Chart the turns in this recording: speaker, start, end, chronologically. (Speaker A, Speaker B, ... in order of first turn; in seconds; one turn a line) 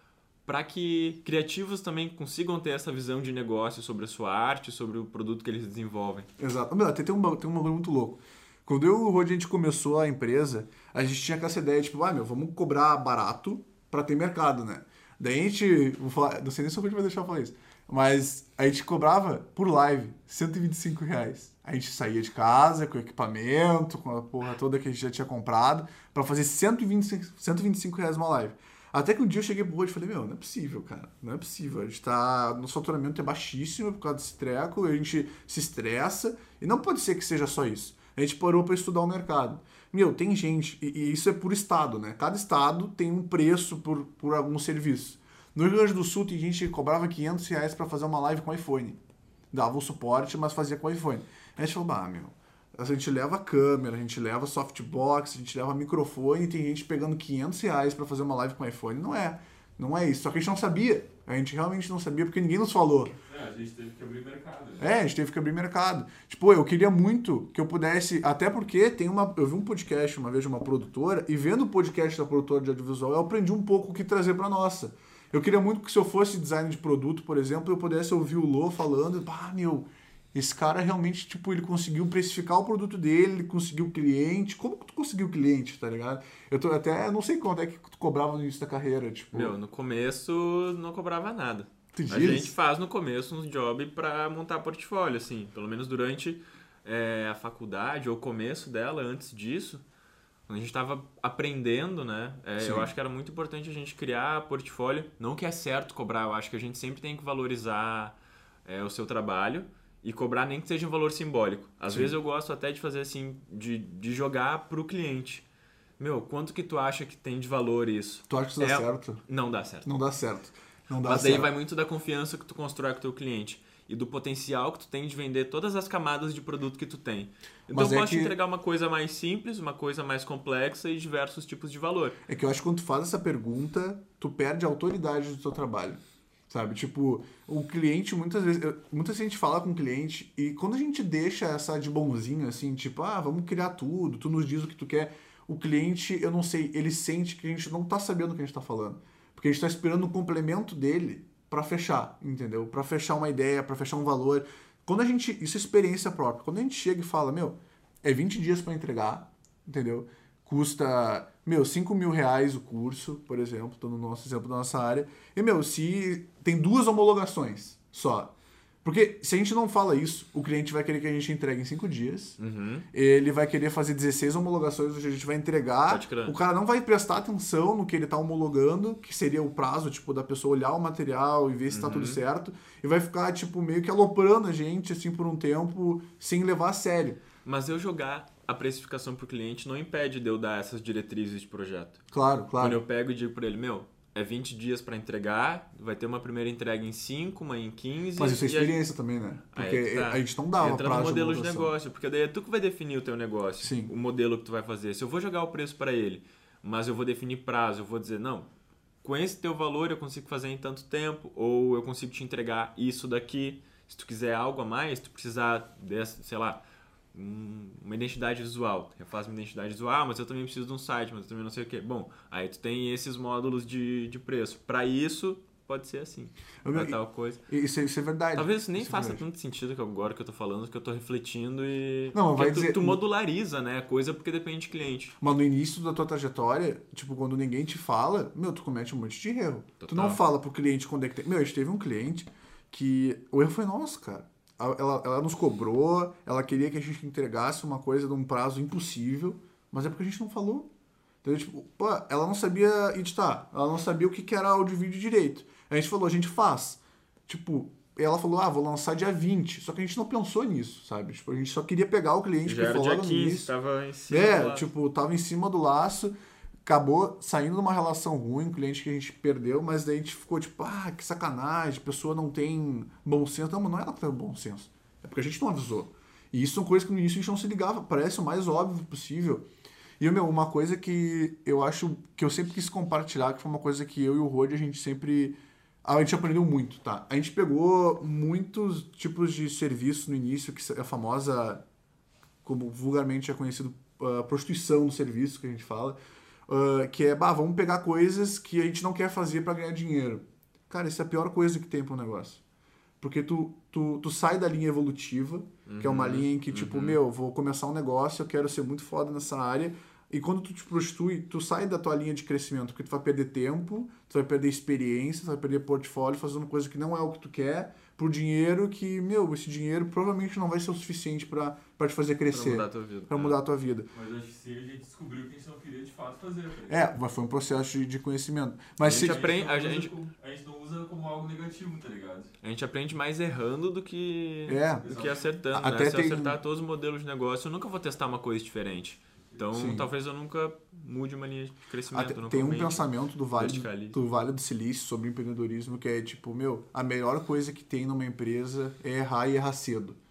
Speaker A: 0.5-6.3
Speaker B: 6.4-49.0
Speaker B: 49.5-63.1
Speaker C: 63.3-64.8
Speaker B: 64.8-89.6
Speaker A: 89.3-99.8
Speaker B: 91.9-92.5
Speaker A: 100.5-115.5
Speaker B: 102.6-102.9
Speaker A: 116.0-119.9
Speaker B: 118.3-119.2
Speaker B: 119.8-121.5
Speaker A: 121.0-132.2
Speaker B: 127.7-128.3
Speaker B: 132.3-168.3
Speaker B: 168.8-172.4
Speaker A: 172.4-172.9
Speaker B: 172.9-187.2
Speaker A: 175.9-176.3
Speaker A: 181.7-182.2
Speaker A: 187.4-192.0
Speaker B: 192.1-192.8
Speaker A: 192.6-198.8
Speaker B: 198.2-201.7
Speaker A: 199.5-208.5
Speaker B: 203.6-203.9
Speaker A: 209.0-216.6
Speaker A: 217.1-227.4
Speaker B: 226.6-227.0
Speaker B: 227.5-229.2
Speaker A: 228.3-235.2
Speaker B: 232.1-233.0
Speaker B: 235.2-250.7
Speaker A: 239.8-240.2
Speaker B: 251.2-263.5
Speaker A: 262.4-264.7
Speaker B: 264.1-266.1
Speaker B: 266.6-279.5
Speaker B: 280.0-291.6
Speaker B: 292.4-296.0
Speaker B: 296.5-302.4
Speaker B: 303.0-323.9
Speaker A: 305.7-307.0
Speaker A: 322.3-323.4
Speaker C: 323.9-326.8
Speaker B: 326.7-329.2
Speaker A: 328.8-329.9
Speaker C: 328.9-332.3
Speaker A: 332.4-344.0
Speaker B: 334.5-334.9
Speaker C: 334.8-335.2
Speaker B: 335.5-336.4
Speaker B: 339.5-339.9
Speaker B: 341.9-350.0